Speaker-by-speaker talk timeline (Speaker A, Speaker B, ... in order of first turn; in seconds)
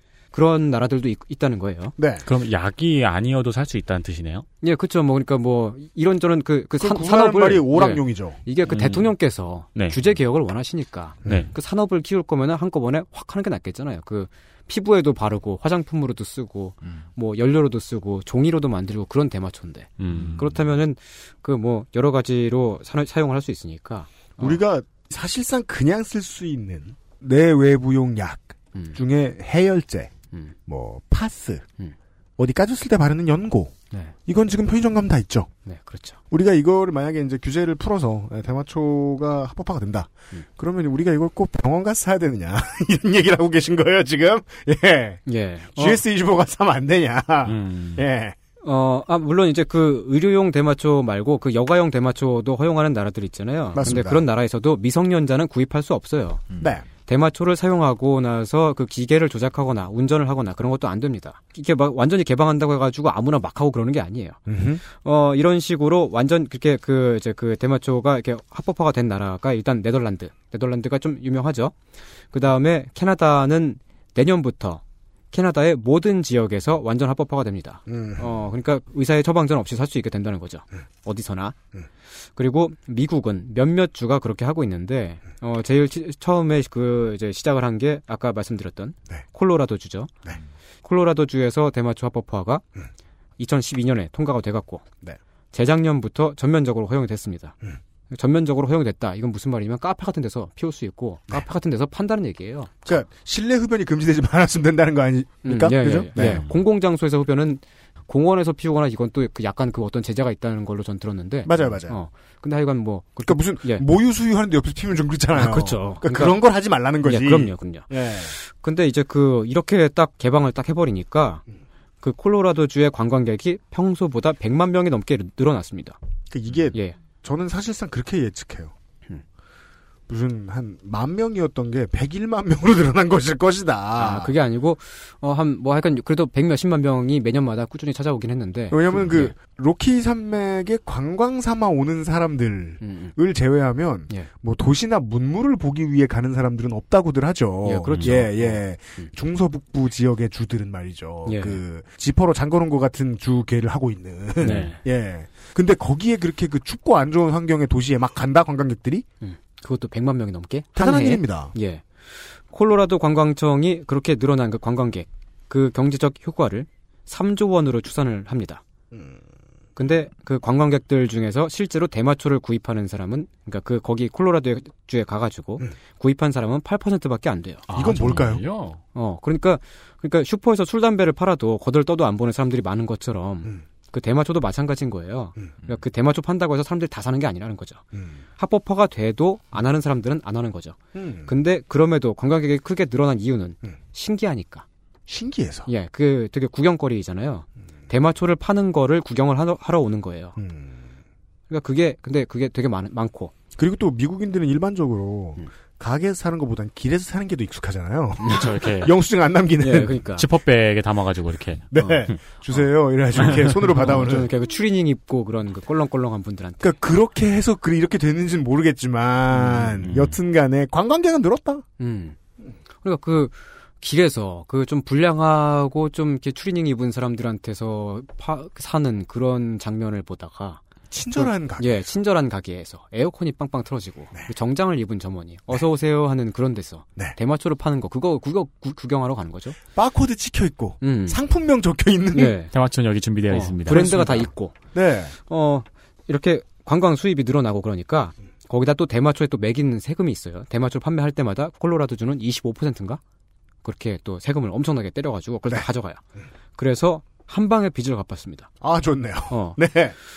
Speaker A: 0.3-1.9, 4.6-24.6, 35.7-36.2, 45.3-46.0, 48.6-56.5, 57.0-71.8, 72.3-74.8, 75.3-81.5, 82.4-90.1, 90.8-92.6, 93.4-94.8, 95.5-97.6, 98.1-102.9, 105.5-113.8, 115.3-116.4, 117.0-121.4, 122.0-126.0, 134.0-139.3, 142.8-143.1, 147.6-149.1, 151.3-151.6, 154.4-154.8, 159.2-168.6, 169.8-177.6, 178.9-187.8, 188.4-194.7, 195.7-200.4, 201.5-203.3, 209.6-210.3, 213.7-216.7, 221.8-222.2, 222.8-230.6, 231.2-239.6, 240.8-241.2, 242.1-242.5, 243.3-244.6, 245.3-253.0, 253.7-256.0, 256.6-258.5, 259.3-259.6
Speaker B: 2.0-2.3, 6.8-8.4, 11.2-11.5, 24.4-30.1, 30.7-31.6, 32.4-33.7, 34.3-35.5, 36.3-45.2, 45.8-48.4, 53.8-54.3, 56.6-56.9, 64.5-64.8, 77.9-78.3, 102.9-106.5, 111.5-112.0, 113.3-118.3, 126.3-128.7, 130.1-134.3, 138.7-159.1, 160.8-161.5, 177.7-178.4, 190.9-191.3, 195.1-195.7, 200.4-200.8, 203.6-210.0, 211.7-214.3, 216.6-221.7, 230.9-231.8, 239.8-242.4, 243.7-244.2, 244.7-245.2, 258.6-259.9
Speaker C: 2.3-4.5, 8.7-9.1, 9.8-10.0, 20.0-20.4, 47.5-48.0, 106.2-106.5, 154.4-154.7, 177.7-178.8, 208.3-208.9, 210.2-211.8, 219.5-220.2, 242.5-244.3